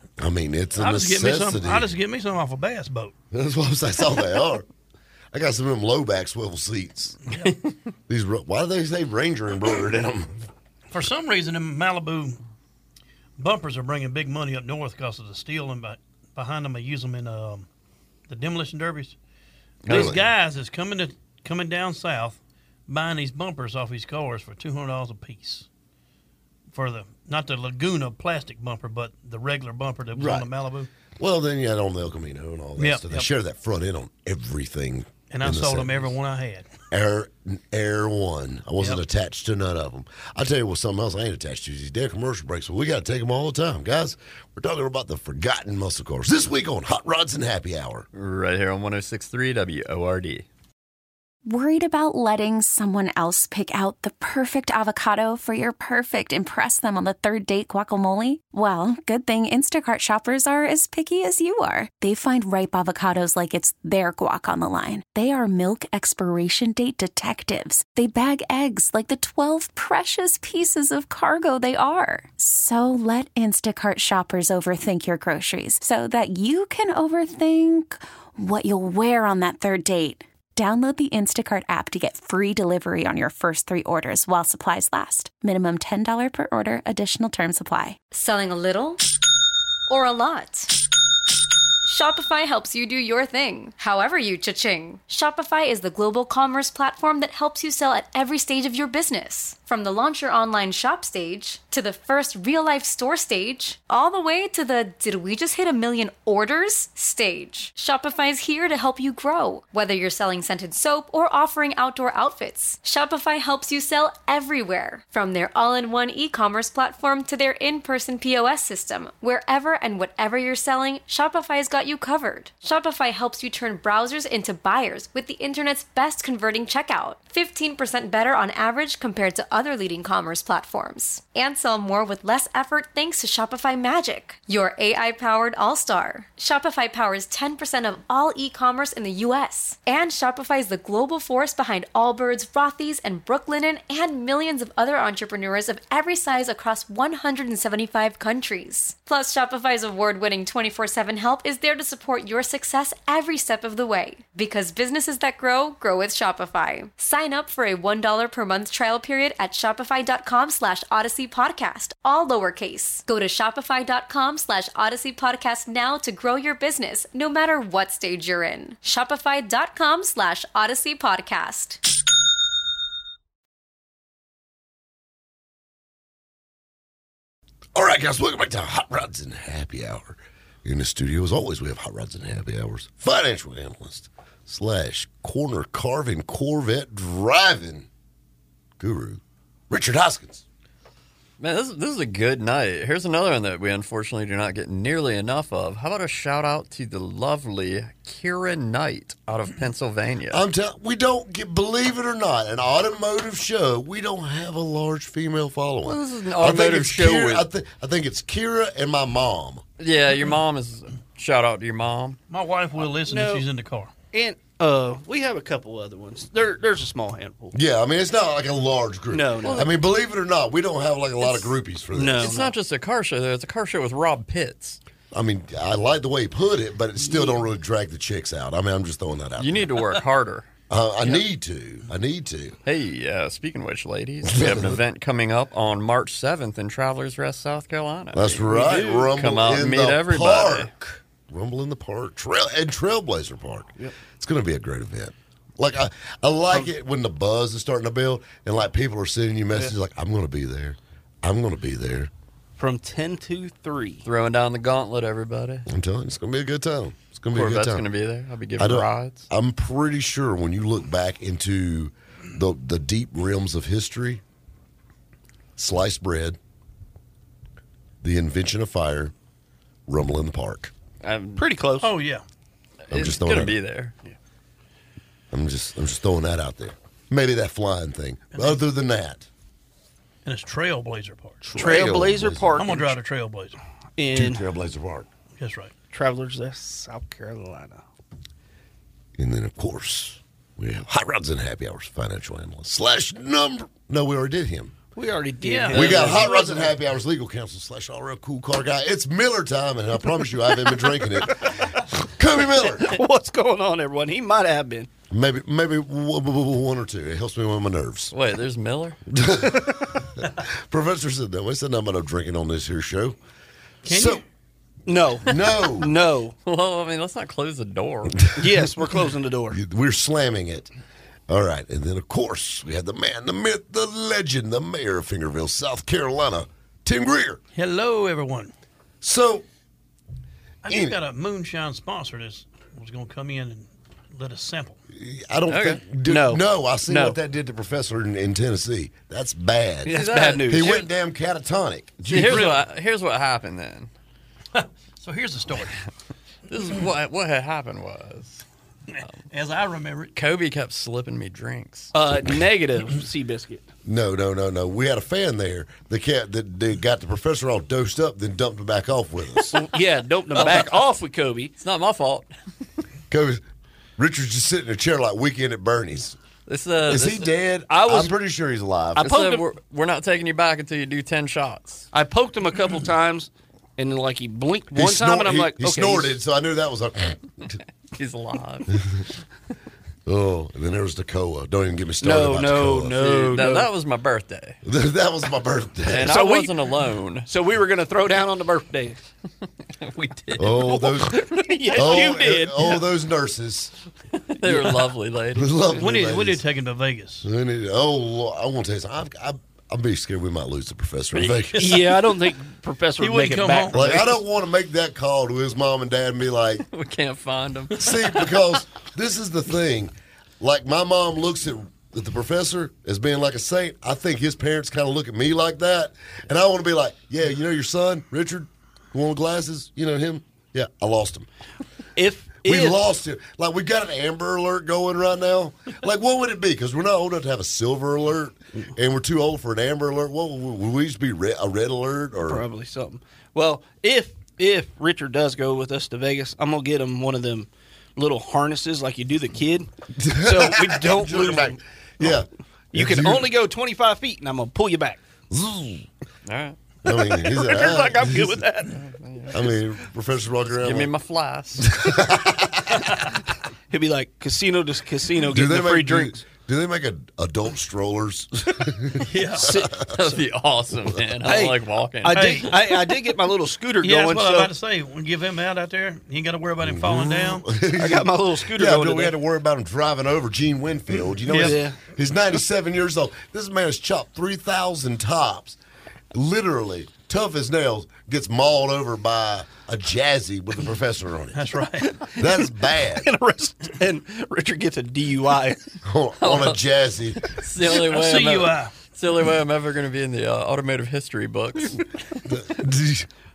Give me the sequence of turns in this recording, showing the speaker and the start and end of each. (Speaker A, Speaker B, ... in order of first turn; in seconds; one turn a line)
Speaker A: 0.2-1.9
Speaker B: 0.8-3.1
Speaker A: 3.3-4.7
Speaker A: 5.3-7.2
Speaker B: 7.3-7.5
Speaker A: 8.1-10.4
Speaker B: 10.9-12.4
Speaker B: 13.4-17.7
Speaker B: 18.3-19.2
Speaker C: 19.8-20.2
Speaker B: 19.9-25.7
Speaker A: 19.9-20.2
Speaker B: 26.7-30.9
Speaker A: 30.1-30.5
Speaker A: 31.2-36.1
Speaker B: 32.8-33.3
Speaker B: 35.3-36.7
Speaker A: 36.9-48.1
Speaker C: 48.1-50.5
Speaker D: 51.5-88.0
Speaker E: 88.1-89.1
Speaker E: 89.9-90.8
Speaker E: 91.8-171.8
Speaker A: 177.8-187.9
Speaker A: 188.8-190.4
Speaker C: 191.4-200.4
Speaker A: 200.3-209.6
Speaker C: 205.8-207.5
Speaker C: 209.8-212.2
Speaker B: 212.3-213.9
Speaker F: 212.9-213.5
Speaker F: 214.1-217.6
Speaker A: 217.5-222.3
Speaker F: 219.1-219.7
Speaker C: 219.4-219.7
Speaker F: 221.9-222.5
Speaker C: 222.2-224.8
Speaker A: 225.1-229.7
Speaker C: 229.4-230.5
Speaker A: 230.7-232.6
Speaker C: 232.6-240.7
Speaker A: 234.2-234.8
Speaker A: 238.1-252.1
Speaker F: 238.5-239.1
Speaker F: 252.6-254.1
Speaker C: 254.1-255.7
Speaker A: 255.7-257.9
Speaker C: 257.3-259.3
Speaker A: 258.6-264.2
Speaker A: 265.6-266.4
Speaker A: 268.0-269.1
Speaker A: 269.9-270.7
Speaker C: 271.0-271.5
Speaker F: 271.4-272.0
Speaker B: 271.8-272.2
Speaker C: 272.9-273.9
Speaker A: 272.9-273.6
Speaker A: 275.3-279.3
Speaker B: 278.3-278.6
Speaker B: 280.2-281.6
Speaker A: 281.4-282.6
Speaker F: 281.6-283.0
Speaker B: 282.6-283.6
Speaker F: 284.0-284.4
Speaker A: 284.1-285.1
Speaker B: 285.4-285.8
Speaker F: 285.9-287.8
Speaker A: 289.2-294.8
Speaker F: 294.9-296.8
Speaker B: 295.4-296.3
Speaker A: 295.7-303.0
Speaker F: 302.4-304.9
Speaker A: 305.1-308.1
Speaker C: 308.1-309.0
Speaker A: 309.1-313.2
Speaker A: 313.9-314.2
Speaker B: 313.9-314.2
Speaker F: 314.9-316.4
Speaker A: 315.2-315.9
Speaker C: 316.4-318.3
Speaker F: 318.4-319.6
Speaker A: 319.5-320.7
Speaker A: 321.3-327.4
Speaker B: 327.6-328.5
Speaker A: 329.0-329.4
Speaker B: 330.6-334.8
Speaker A: 330.7-331.0
Speaker A: 334.9-342.1
Speaker C: 335.5-335.8
Speaker F: 336.1-337.2
Speaker F: 339.9-340.8
Speaker C: 339.9-340.9
Speaker C: 342.0-343.9
Speaker B: 342.1-342.6
Speaker B: 344.5-345.8
Speaker C: 346.5-348.4
Speaker B: 348.9-350.1
Speaker C: 350.1-351.9
Speaker F: 351.9-353.7
Speaker A: 353.9-359.6
Speaker F: 359.5-361.5
Speaker C: 360.4-360.7
Speaker C: 361.6-362.3
Speaker A: 363.1-363.4
Speaker A: 364.0-366.2
Speaker C: 366.5-367.3
Speaker A: 366.9-369.1
Speaker F: 367.7-368.1
Speaker F: 369.0-369.5
Speaker C: 369.0-371.9
Speaker F: 371.9-376.2
Speaker A: 374.7-377.6
Speaker C: 377.9-379.1
Speaker A: 380.1-383.1
Speaker F: 382.0-383.7
Speaker C: 383.0-384.6
Speaker A: 384.6-386.2
Speaker C: 385.9-387.3
Speaker F: 386.0-386.6
Speaker F: 387.2-389.0
Speaker C: 389.7-392.1
Speaker A: 390.4-393.7
Speaker F: 390.6-392.9
Speaker C: 394.2-395.6
Speaker A: 395.4-396.4
Speaker B: 395.7-397.2
Speaker A: 397.2-401.9
Speaker F: 401.5-404.2
Speaker B: 403.0-404.0
Speaker A: 403.7-406.6
Speaker C: 406.7-408.4
Speaker A: 407.8-421.3
Speaker F: 422.0-422.9
Speaker A: 422.4-432.5
Speaker F: 432.2-441.6
Speaker A: 440.0-443.3
Speaker F: 442.7-445.0
Speaker A: 445.3-445.9
Speaker C: 446.2-446.6
Speaker A: 446.8-448.4
Speaker F: 446.9-448.9
Speaker C: 448.8-449.6
Speaker A: 449.3-450.9
Speaker C: 450.6-452.0
Speaker A: 451.6-452.8
Speaker F: 453.7-456.2
Speaker A: 455.2-459.9
Speaker B: 459.0-459.5
Speaker F: 459.4-460.2
Speaker C: 459.8-462.6
Speaker F: 461.2-464.5
Speaker B: 462.1-462.6
Speaker B: 463.8-467.5
Speaker A: 466.6-475.6
Speaker F: 467.8-469.1
Speaker B: 471.3-471.6
Speaker F: 471.3-471.8
Speaker A: 476.1-483.1
Speaker B: 481.3-481.9
Speaker F: 482.0-485.6
Speaker A: 485.8-487.2
Speaker C: 486.2-486.6
Speaker C: 487.2-491.9
Speaker B: 487.7-488.7
Speaker A: 492.3-493.1